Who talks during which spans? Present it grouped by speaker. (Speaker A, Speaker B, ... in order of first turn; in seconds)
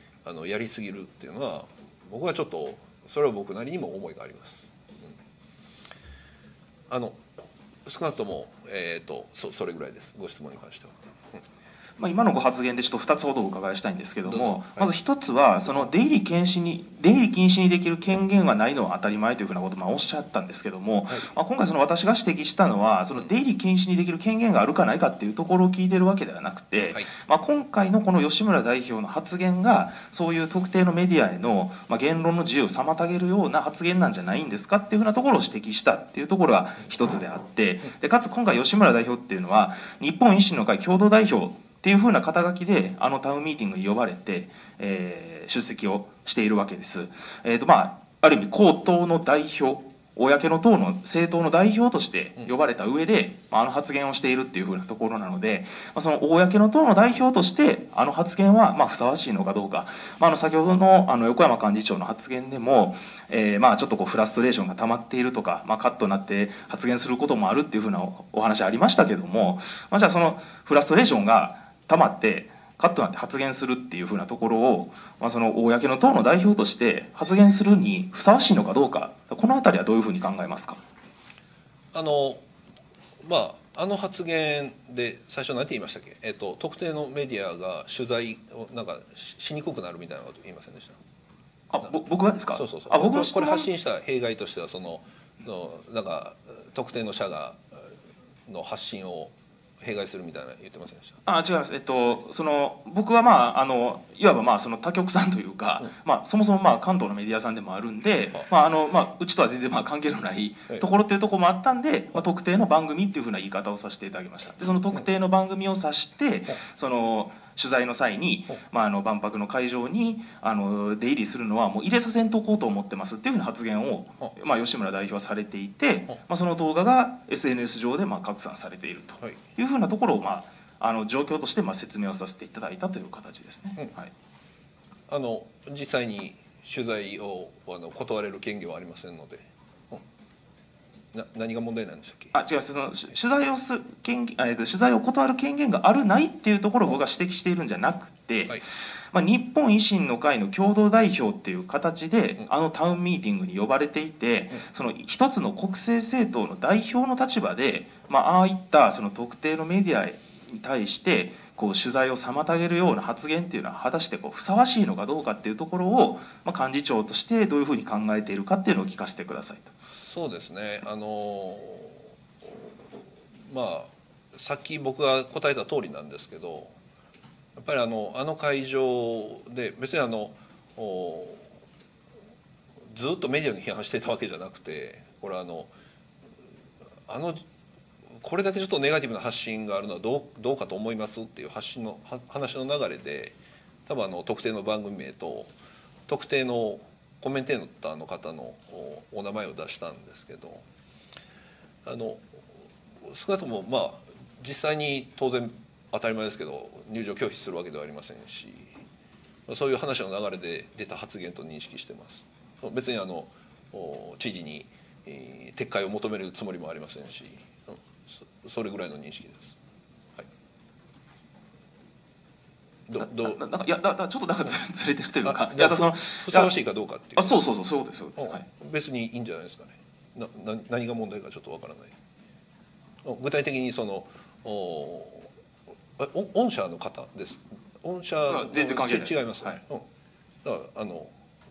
Speaker A: 0.2-5.1, 6.9-7.2, 7.9-11.4, 14.3-14.9, 81.9-82.4, 83.2-91.0, 92.5-97.8, 98.5-101.2, 135.1-140.0, 141.1-142.3, 170.0-172.6, 173.5-176.8, 177.6-181.5, 182.9-185.7, 187.1-187.4, 188.2-195.5, 196.1-200.6, 201.8-202.2, 203.1-208.7, 209.5-219.6, 222.9-223.4, 225.2-227.4, 228.2-231.9, 233.0-235.3, 236.0-239.8, 240.4-241.1
Speaker B: 12.0-80.8, 91.7-93.7, 101.2-134.1, 142.3-169.7, 223.0-226.5, 227.2-228.5, 238.3-239.6